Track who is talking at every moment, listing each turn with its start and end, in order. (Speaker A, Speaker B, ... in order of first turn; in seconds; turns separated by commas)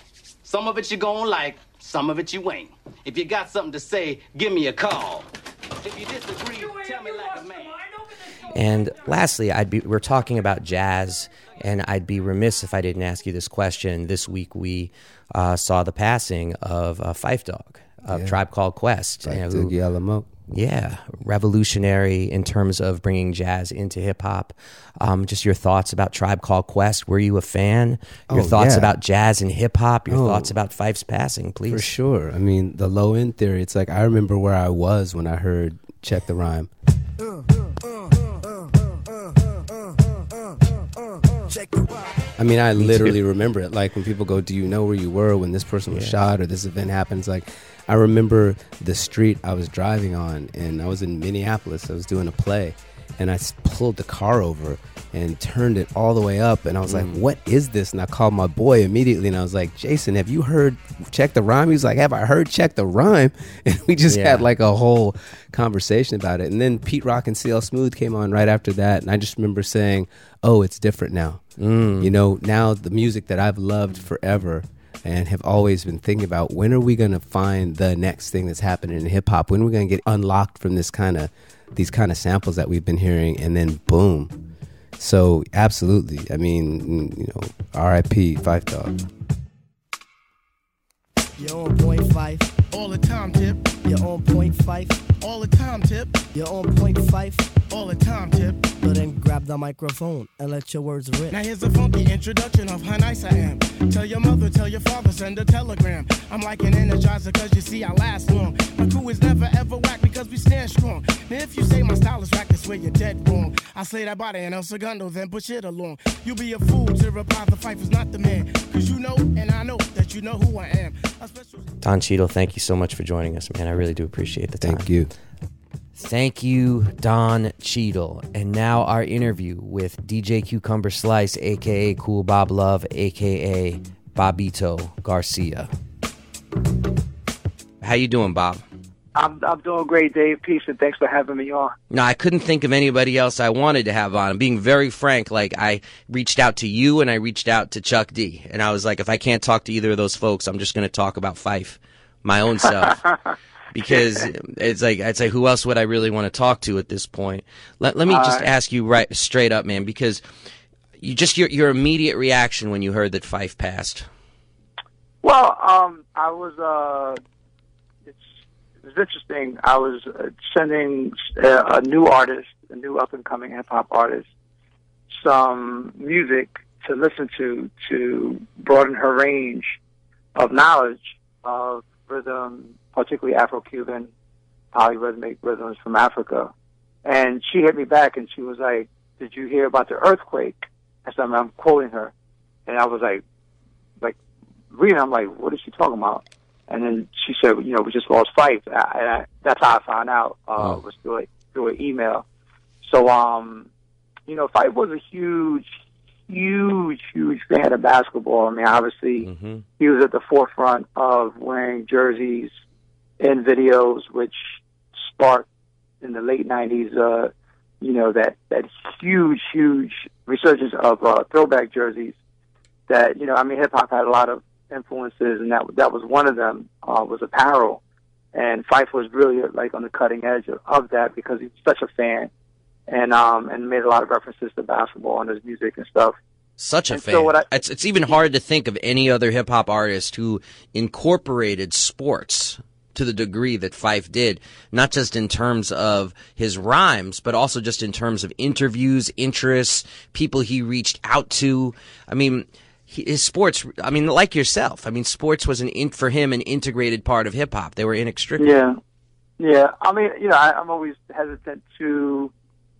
Speaker A: 0.4-5.3, Speaker A: 5.8-7.8, Speaker B: 8.5-19.7, Speaker C: 18.1-18.4, Speaker C: 19.2-20.3, Speaker B: 20.5-31.9, Speaker C: 28.3-28.9, Speaker C: 30.1-30.6, Speaker C: 31.7-36.7, Speaker D: 38.0-38.6, Speaker D: 41.3-41.8, Speaker C: 42.4-71.4, Speaker B: 42.8-43.2, Speaker B: 45.9-46.2, Speaker B: 56.9-57.2, Speaker B: 64.1-64.5, Speaker B: 71.6-72.1, Speaker C: 72.0-84.3, Speaker C: 85.0-89.0, Speaker D: 91.4-92.5, Speaker E: 92.7-93.8, Speaker D: 93.8-95.1, Speaker E: 95.2-96.3, Speaker D: 96.3-97.6, Speaker E: 97.7-98.7, Speaker D: 98.8-101.4, Speaker E: 101.3-121.7, Speaker B: 121.8-124.9, Speaker C: 124.6-125.1, Speaker B: 126.0-135.7, Speaker B: 137.8-138.6, Speaker F: 139.2-141.7, Speaker B: 141.9-153.0, Speaker B: 153.7-160.2, Speaker F: 158.1-158.5, Speaker B: 161.0-164.1, Speaker F: 165.2-167.2, Speaker F: 168.8-174.2, Speaker F: 175.2-179.8, Speaker F: 180.4-184.1, Speaker F: 184.7-186.5, Speaker F: 187.1-192.1, Speaker F: 192.7-193.2, Speaker F: 194.7-202.2, Speaker F: 202.8-203.7, Speaker F: 204.3-205.7, Speaker F: 206.3-209.3, Speaker B: 209.2-209.7, Speaker F: 209.8-212.5, Speaker F: 213.2-214.4, Speaker F: 215.0-215.5, Speaker F: 216.0-222.1, Speaker F: 222.9-227.8, Speaker F: 228.3-232.3, Speaker F: 232.9-236.2, Speaker B: 236.6-258.5, Speaker F: 236.9-237.5, Speaker F: 258.4-258.8, Speaker F: 259.4-262.3